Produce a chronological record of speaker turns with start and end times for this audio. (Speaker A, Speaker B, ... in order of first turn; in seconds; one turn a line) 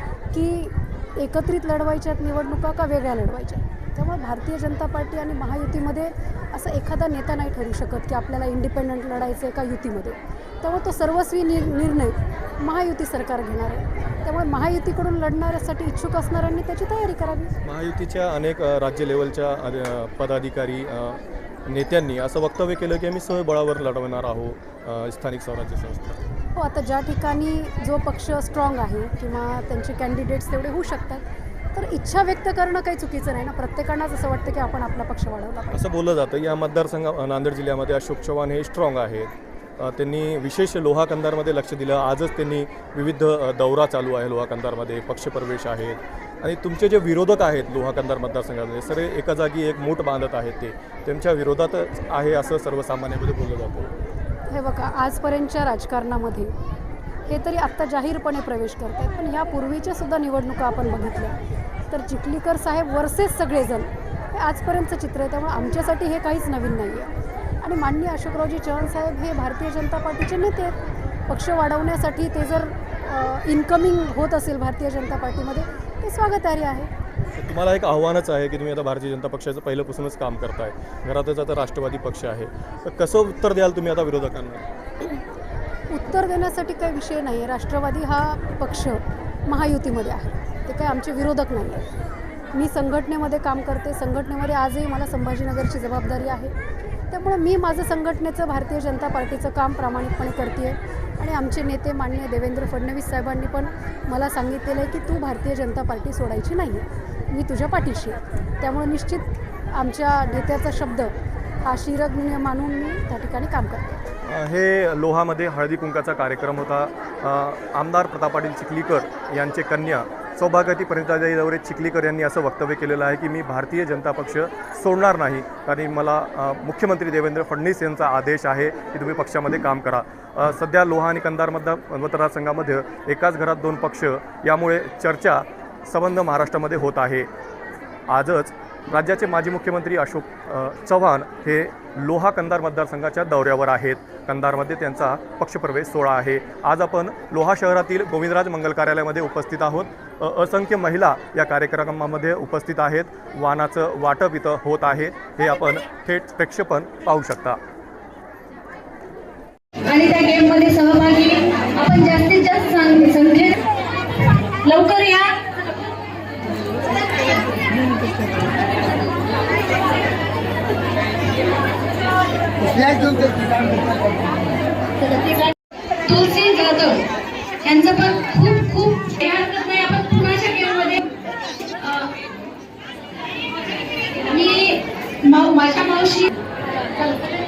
Speaker A: 0.3-17.5
Speaker B: 17.6-26.2
Speaker A: 26.5-35.8
Speaker B: 35.7-53.9
Speaker A: 54.5-56.5
Speaker A: 57.3-61.4
Speaker A: 61.9-76.9
Speaker B: 77.3-84.7
Speaker A: 85.9-91.8
Speaker A: 92.5-96.5
Speaker A: 97.1-113.9
Speaker B: 114.2-137.3
Speaker B: 138.1-157.6
Speaker C: 159.8-163.6
Speaker C: 164.6-165.4
Speaker C: 172.7-173.8
Speaker C: 176.0-177.1
Speaker C: 177.6-181.1
Speaker C: 181.8-182.1
Speaker C: 184.2-186.3